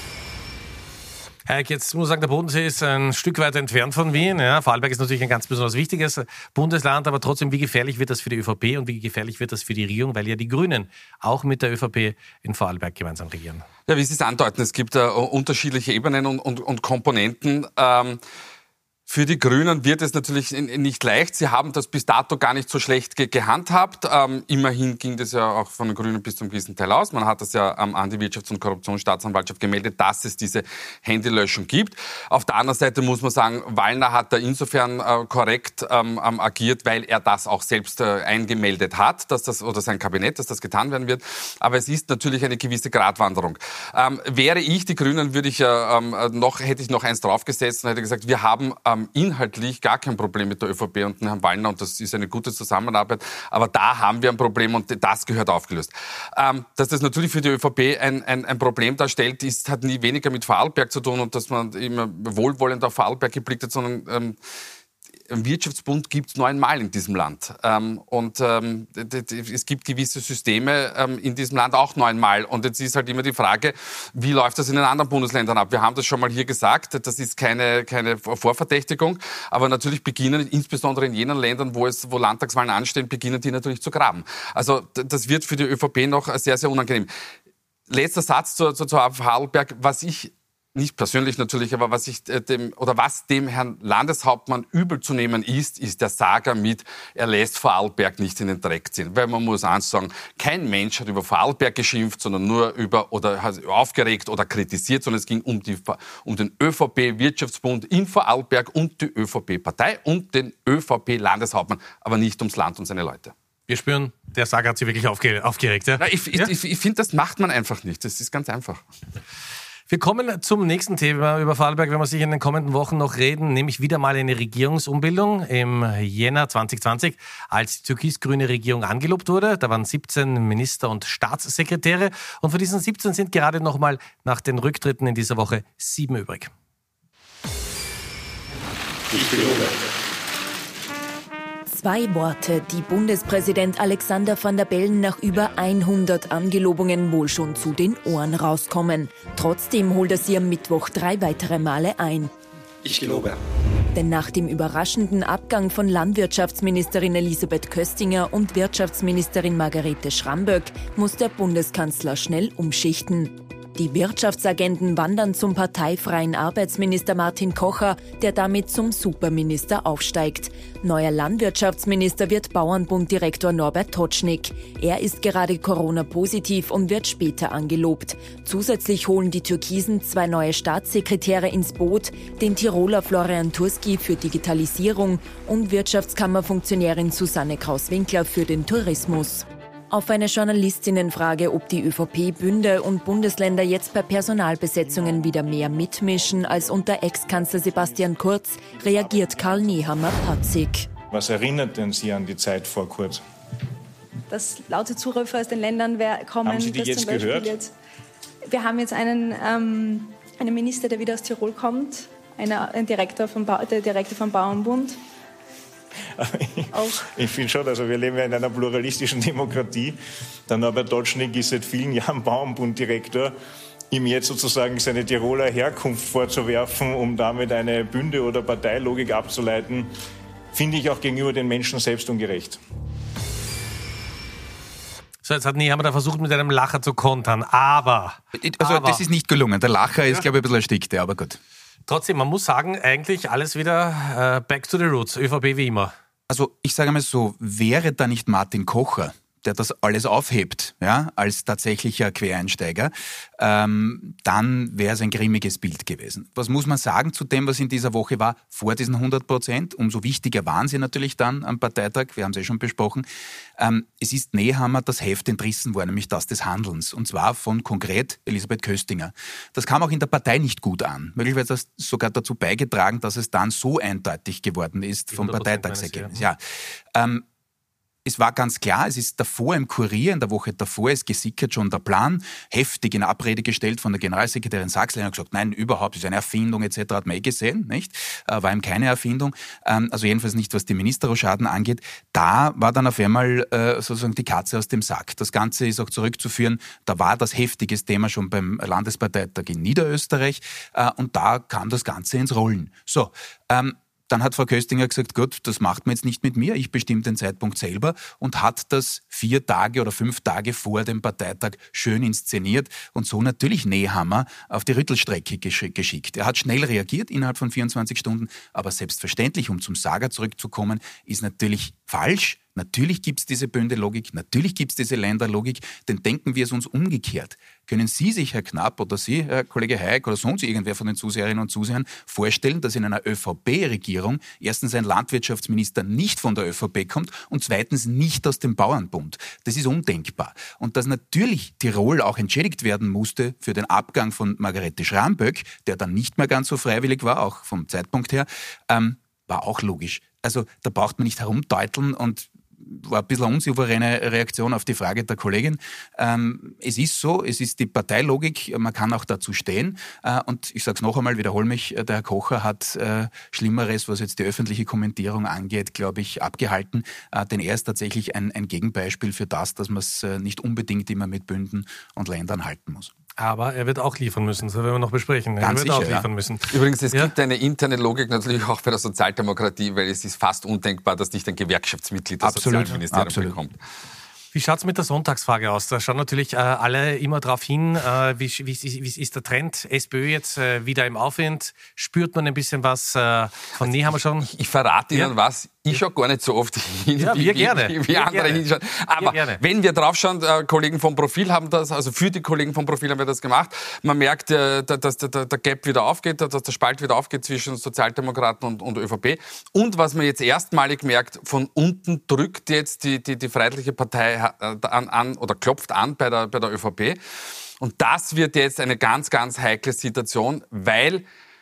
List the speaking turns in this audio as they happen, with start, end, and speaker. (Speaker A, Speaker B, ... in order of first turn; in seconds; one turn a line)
Speaker A: 1.5-13.6
Speaker B: 13.9-18.2
Speaker B: 19.1-64.4
Speaker B: 65.3-87.1
Speaker B: 87.9-113.3
Speaker A: 113.7-116.5
Speaker B: 116.0-118.8
Speaker A: 119.9-136.5
Speaker C: 141.7-152.3
Speaker B: 152.8-153.3
Speaker C: 153.9-200.9
Speaker D: 201.1-203.2
Speaker E: 204.3-207.7
Speaker D: 206.4-207.6
Speaker E: 208.4-215.0
Speaker D: 216.2-220.0
Speaker E: 216.7-217.1
Speaker D: 220.5-223.3
Speaker D: 223.9-229.9
Speaker D: 230.5-232.6
Speaker A: 235.2-239.0
Speaker F: 238.3-241.4
Speaker A: 241.9-245.9
Speaker F: 246.3-263.1
Speaker F: 263.6-277.2
Speaker A: 275.1-276.2
Speaker F: 278.0-372.9
Speaker A: 373.2-377.1
Speaker F: 375.4-376.1
Speaker B: 376.5-383.6
Speaker F: 382.2-383.4
Speaker A: 384.3-394.3
Speaker B: 393.6-417.0
Speaker A: 397.0-398.4
Speaker A: 399.0-399.4
Speaker B: 417.6-421.0